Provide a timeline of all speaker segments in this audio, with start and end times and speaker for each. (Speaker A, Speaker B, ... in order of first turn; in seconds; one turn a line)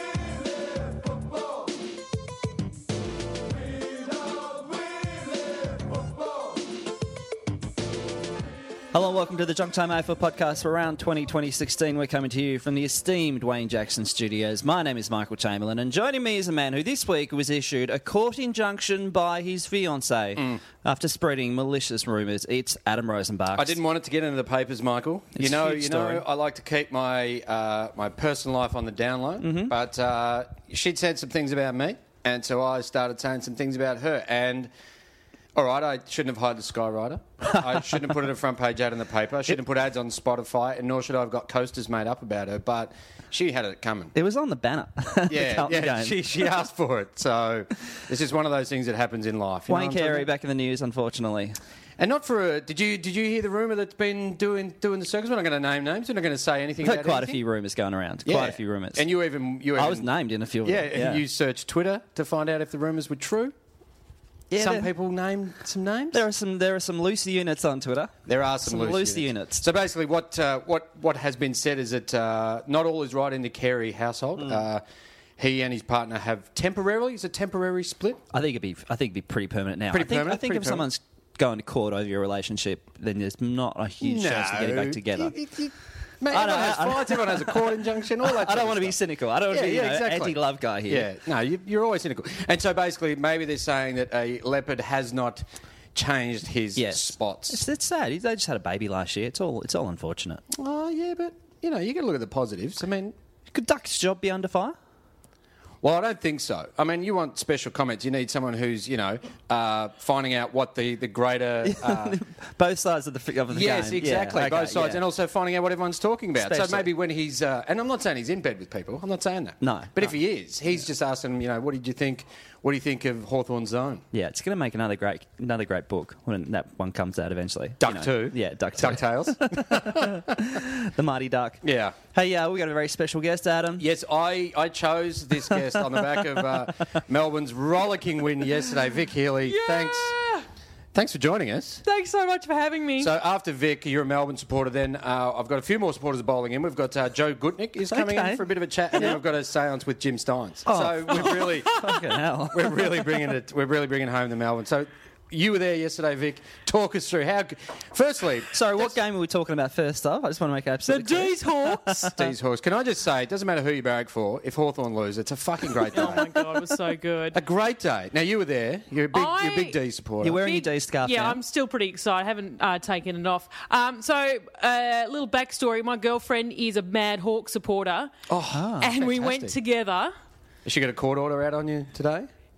Speaker A: 8.9-23.8
Speaker B: 20.4-20.6
Speaker B: 23.5-34.7
Speaker A: 25.4-26.2
Speaker A: 29.4-29.7
Speaker B: 35.5-44.1
Speaker A: 44.1-46.5
Speaker B: 45.3-50.3
Speaker A: 49.7-51.6
Speaker B: 52.0-57.4
Speaker A: 56.8-59.1
Speaker B: 58.2-60.0
Speaker A: 59.8-61.2
Speaker B: 60.6-63.5
Speaker A: 64.5-64.9
Speaker B: 64.5-66.2
Speaker A: 66.1-69.6
Speaker B: 68.3-74.8
Speaker B: 75.4-78.2
Speaker A: 78.3-85.3
Speaker B: 79.9-80.9
Speaker B: 84.0-89.0
Speaker A: 86.3-91.1
Speaker B: 89.5-90.3
Speaker B: 90.9-97.6
Speaker A: 96.7-100.4
Speaker B: 100.5-103.1
Speaker A: 103.5-104.8
Speaker B: 105.8-112.2
Speaker A: 111.6-115.0
Speaker B: 113.5-124.0
Speaker A: 116.4-116.9
Speaker A: 119.6-120.1
Speaker A: 124.1-133.8
Speaker B: 127.8-130.5
Speaker B: 131.6-132.0
Speaker B: 133.8-140.1
Speaker C: 139.4-140.5
Speaker B: 140.9-141.8
Speaker C: 141.8-143.1
Speaker B: 143.0-151.8
Speaker A: 147.9-149.2
Speaker A: 150.7-153.2
Speaker C: 151.1-152.0
Speaker B: 152.5-158.9
Speaker A: 158.5-162.1
Speaker C: 160.8-162.2
Speaker B: 162.2-166.3
Speaker C: 165.9-167.4
Speaker B: 167.3-170.4
Speaker C: 169.1-169.8
Speaker A: 170.2-171.4
Speaker C: 170.4-178.1
Speaker B: 178.3-179.5
Speaker A: 178.5-178.9
Speaker C: 178.8-180.1
Speaker B: 180.6-182.3